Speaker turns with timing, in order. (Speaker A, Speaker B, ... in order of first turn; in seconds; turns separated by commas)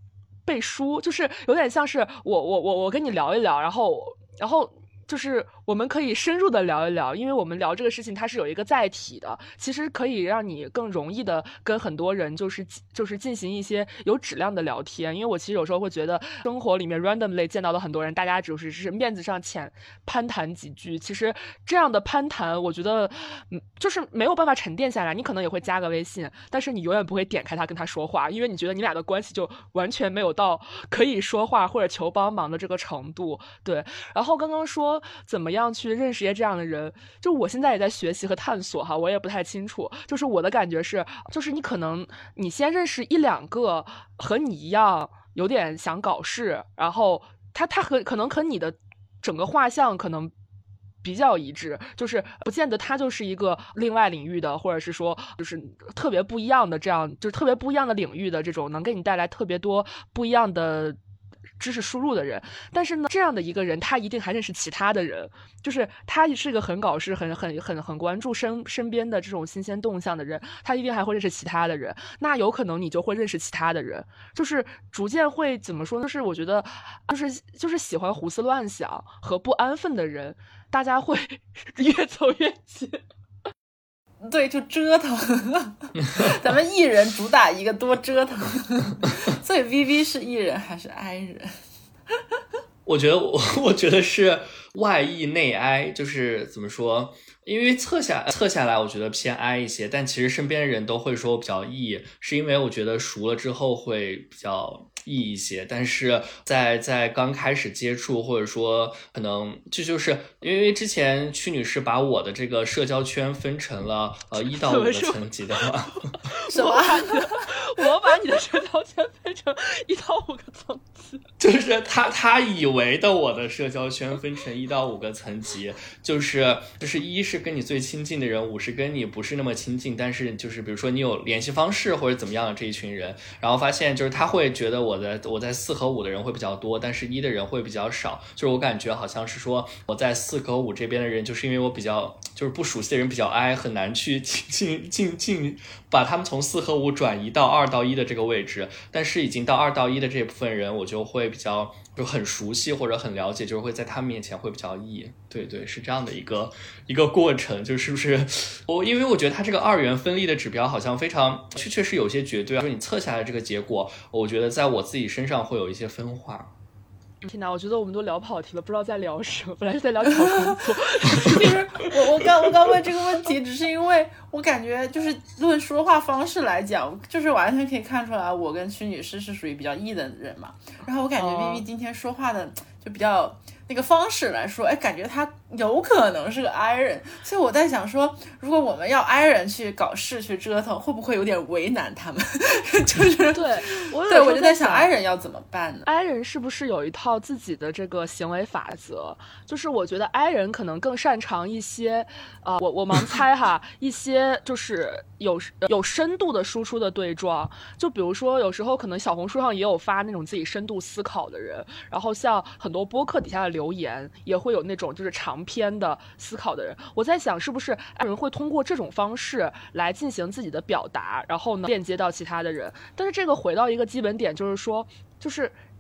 Speaker A: 0.5-50.3, Speaker A: 51.0-61.0, Speaker A: 61.6-83.0, Speaker B: 84.2-91.5, Speaker C: 92.9-116.1, Speaker A: 114.5-115.2, Speaker A: 116.1-121.2, Speaker B: 116.5-117.3, Speaker C: 121.4-166.5, Speaker A: 167.2-171.9, Speaker B: 170.2-195.9, Speaker A: 181.2-181.6, Speaker A: 193.3-194.9, Speaker A: 195.9-225.6